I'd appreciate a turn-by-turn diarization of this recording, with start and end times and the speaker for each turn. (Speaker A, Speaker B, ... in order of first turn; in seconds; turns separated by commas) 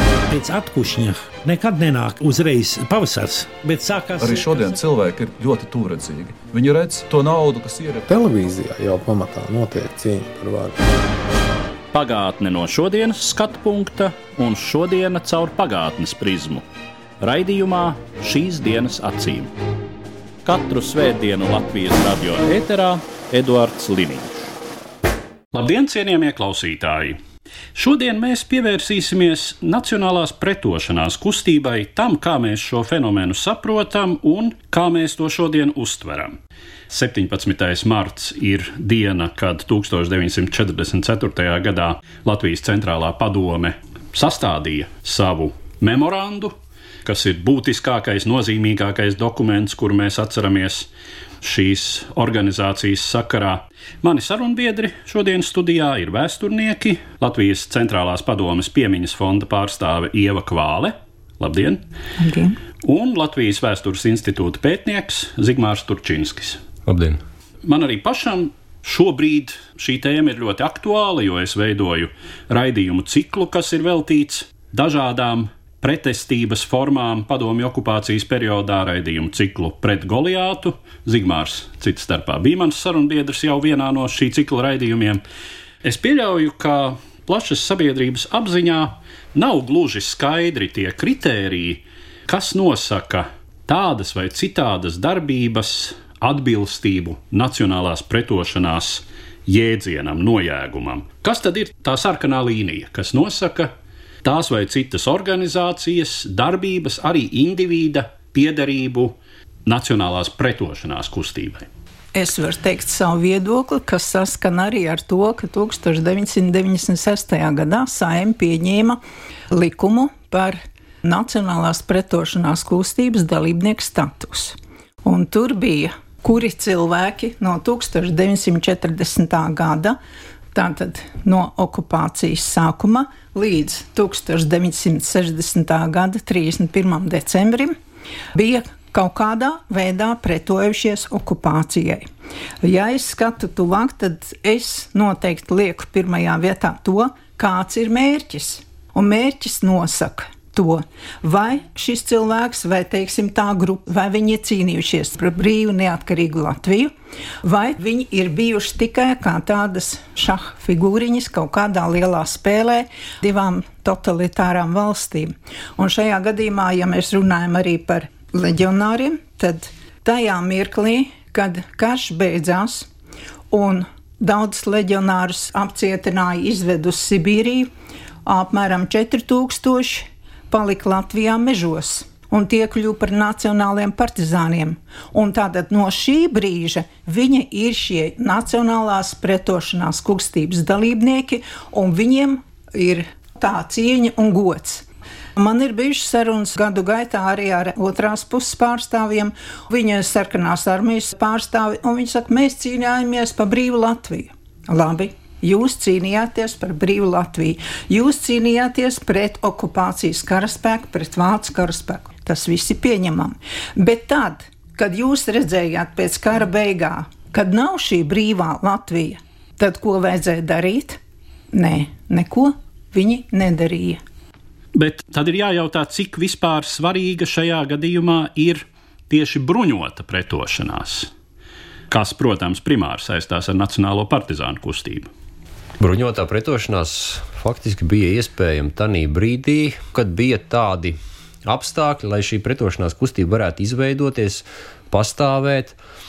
Speaker A: 0.3-4.4, Speaker B: 4.2-8.1, Speaker C: 8.1-10.8, Speaker D: 11.9-16.6, Speaker D: 17.2-19.5, Speaker D: 20.4-24.5, Speaker D: 25.5-27.2, Speaker D: 27.7-36.4, Speaker D: 36.9-50.9, Speaker D: 51.4-61.8, Speaker E: 62.2-62.5, Speaker D: 62.8-66.6, Speaker F: 66.8-67.2, Speaker D: 67.6-85.2, Speaker D: 85.8-103.7, Speaker D: 104.2-111.7, Speaker E: 112.1-119.0, Speaker E: 119.5-130.0, Speaker E: 130.5-137.7, Speaker E: 138.3-142.1, Speaker E: 142.6-156.9, Speaker E: 157.4-172.9, Speaker E: 173.5-177.7, Speaker E: 178.2-194.8, Speaker E: 195.3-221.0, Speaker E: 221.5-224.0, Speaker D: 224.7-231.1, Speaker D: 231.9-235.1, Speaker F: 235.8-245.8